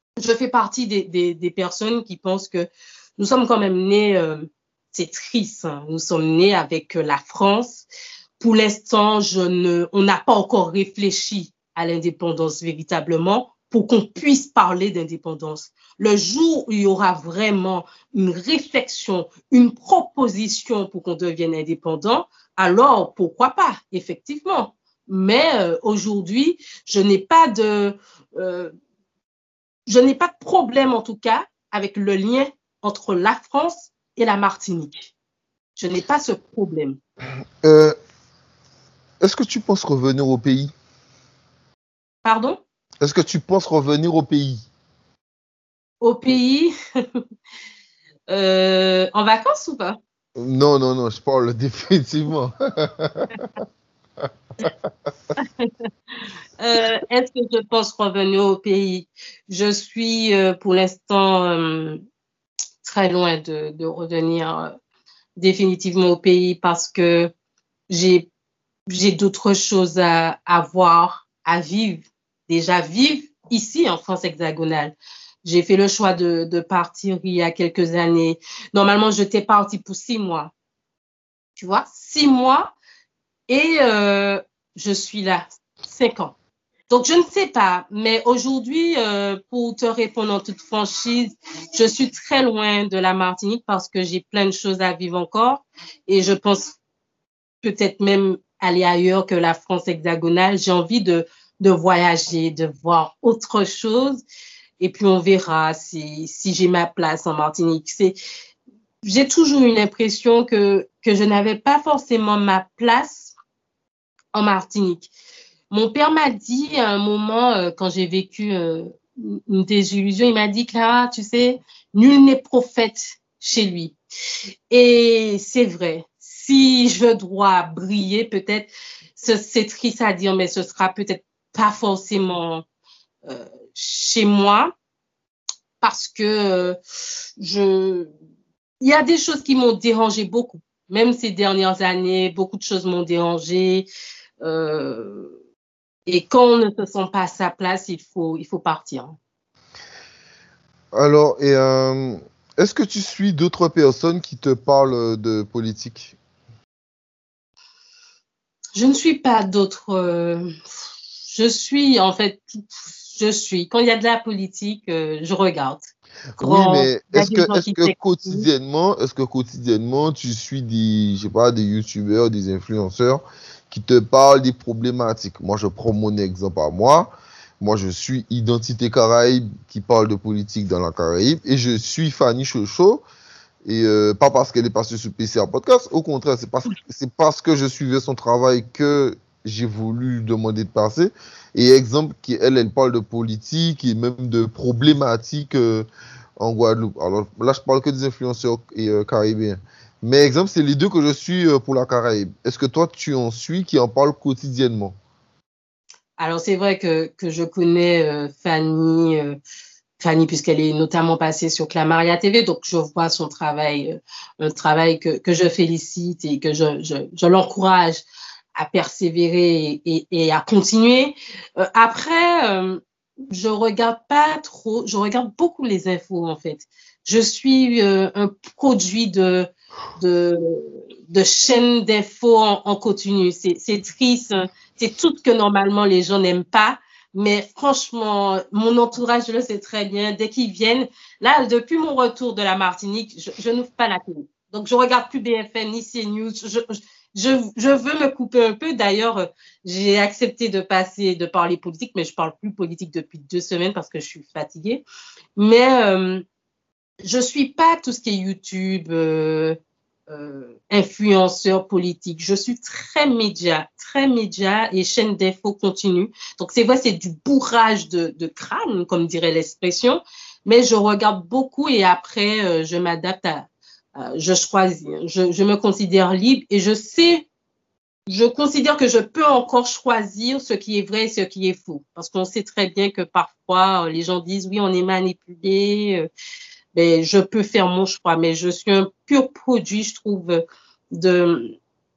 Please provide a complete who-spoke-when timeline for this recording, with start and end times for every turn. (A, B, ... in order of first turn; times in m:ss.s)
0:00.2-0:07.9 A
0:08.4-0:28.7 A
0:29.9-0:35.1 A
0:35.8-0:37.0 A
0:37.6-0:38.0 B
0:39.2-0:40.7 B
0:42.2-0:42.6 A
0:43.0-0:44.7 B
0:46.0-0:46.7 A
0:48.3-0:50.0 A
0:50.4-0:53.5 B
0:55.4-0:55.7 A
0:56.6-1:02.0 A
1:02.8-1:04.7 A
1:05.4-1:07.3 A
1:07.9-1:08.3 A
1:08.9-1:20.5 A
1:21.6-1:22.8 A
1:23.5-1:26.4 A
1:26.9-1:36.8 A
1:37.6-1:44.2 A
1:44.8-1:48.2 A
1:49.0-1:53.3 A
1:54.3-1:55.1 A
1:55.7-2:04.0 A
2:04.7-2:12.6 A
2:13.3-2:14.7 A
2:15.8-2:16.8 A
2:17.4-2:18.1 A
2:18.8-2:23.9 A
2:24.4-2:25.3 A
2:26.1-2:29.2 A
2:31.0-2:36.2 B
2:38.8-2:40.5 A
2:41.3-2:48.5 A
2:46.4-3:03.0 B
3:03.6-3:15.9 B
3:16.4-3:25.0 B
3:26.2-3:29.4 A
3:30.0-3:38.0 A
3:38.6-4:14.8 A
4:15.4-4:16.2 A
4:17.0-4:19.6 A
4:20.1-4:37.3 A
4:38.1-4:46.1 A
4:46.8-4:51.6 A